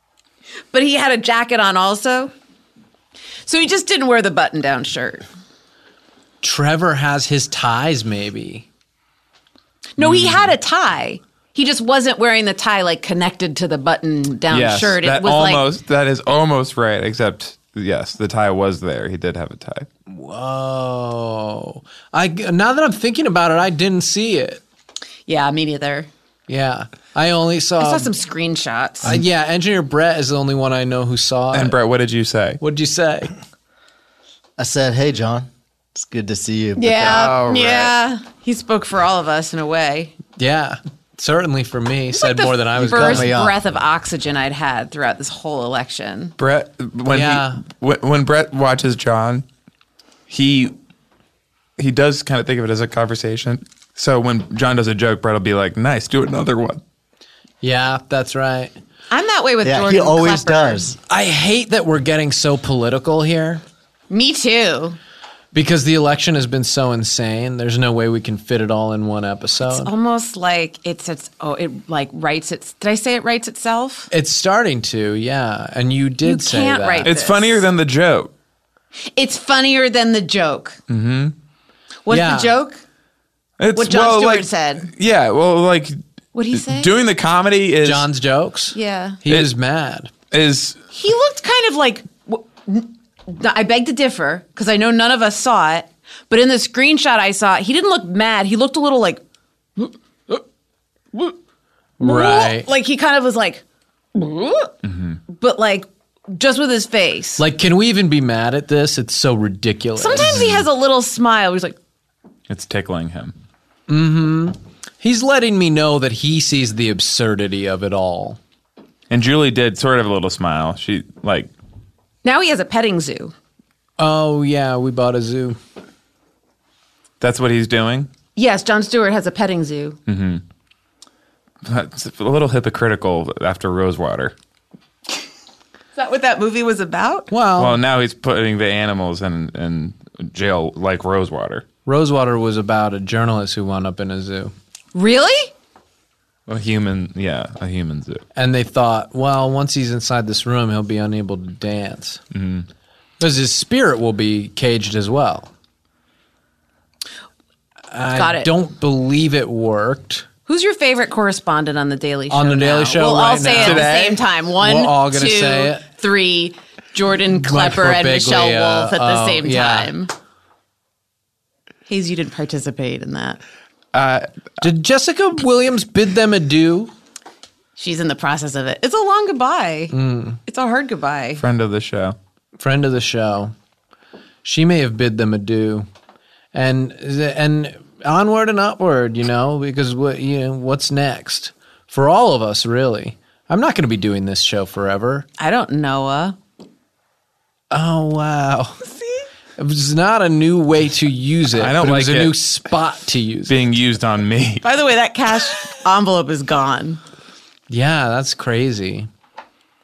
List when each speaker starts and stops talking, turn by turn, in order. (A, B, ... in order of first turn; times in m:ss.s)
0:00.7-0:02.3 A
0:03.4-0:05.2 A
0:06.4-0:08.6 B
0:10.0-0:15.6 A
0:10.0-0:10.5 C
0:14.5-0:19.9 C
0:20.1-0:24.6 B
0:25.3-0:26.1 A
0:26.5-0:28.1 B
0:27.8-0:29.2 A
0:29.0-0:31.8 B
0:31.5-0:32.6 C
0:32.6-0:33.3 B
0:34.6-0:37.3 D
0:36.8-0:40.1 A
0:37.0-0:37.9 C
0:40.4-0:43.3 B
0:42.1-0:46.3 A
0:42.8-0:43.6 D
0:46.4-0:49.4 C
0:47.1-0:47.6 B
0:50.3-0:50.7 C
0:51.8-0:56.8 C
0:57.6-0:58.7 B
0:59.1-1:00.9 A
0:59.6-1:01.0 D
1:01.1-1:03.6 B
1:04.1-1:05.0 A
1:05.5-1:09.9 B
1:09.7-1:14.1 A
1:14.1-1:17.1 B
1:16.2-1:17.7 A
1:17.0-1:18.3 C
1:19.1-1:20.8 A
1:20.9-1:21.3 C
1:22.0-1:22.8 A
1:22.1-1:22.5 B
1:23.6-1:26.0 C
1:23.7-1:24.9 A
1:26.3-1:26.9 A
1:26.5-1:28.0 C
1:27.8-1:30.1 B
1:28.7-1:29.2 A
1:30.3-1:30.8 C
1:30.9-1:39.2 A
1:39.8-1:40.3 A
1:42.0-1:42.7 B
1:42.0-1:43.6 A
1:44.1-1:44.7 A
1:44.8-1:45.2 C
1:45.3-1:47.4 A
1:47.4-1:50.5 B
1:50.0-1:51.8 A
1:50.2-1:50.6 C
1:52.5-1:53.3 C
1:53.9-1:58.4 B
1:59.1-2:01.5 C
2:02.2-2:03.3 A
2:04.0-2:05.6 B
2:07.2-2:08.1 C
2:08.4-2:10.0 A
2:10.1-2:10.4 C
2:11.6-2:14.3 C
2:16.0-2:17.3 A
2:17.3-2:17.8 B
2:17.6-2:21.6 C
2:21.8-2:24.5 B
2:24.9-2:25.5 A
2:26.5-2:28.2 C
2:28.3-2:32.2 B
2:32.3-2:32.7 C
2:33.2-2:35.5 B
2:37.9-2:40.3 B
2:38.1-2:38.5 A
2:40.5-2:50.1 A
2:42.3-2:43.9 B
2:43.5-2:44.2 C
2:44.6-2:45.8 B
2:47.3-2:49.9 B
2:51.9-2:53.4 A
2:53.9-2:54.3 C
2:54.6-2:56.9 B
2:57.8-2:59.9 A
2:59.9-3:00.4 B
3:00.5-3:01.4 A
3:01.4-3:02.2 C
3:02.6-3:03.5 B
3:04.4-3:05.9 B
3:06.5-3:15.2 B
3:15.4-3:16.4 A
3:17.7-3:18.8 B
3:19.6-3:23.6 B
3:21.5-3:22.3 C
3:23.5-3:24.6 C
3:24.6-3:27.0 A
3:27.7-3:29.1 B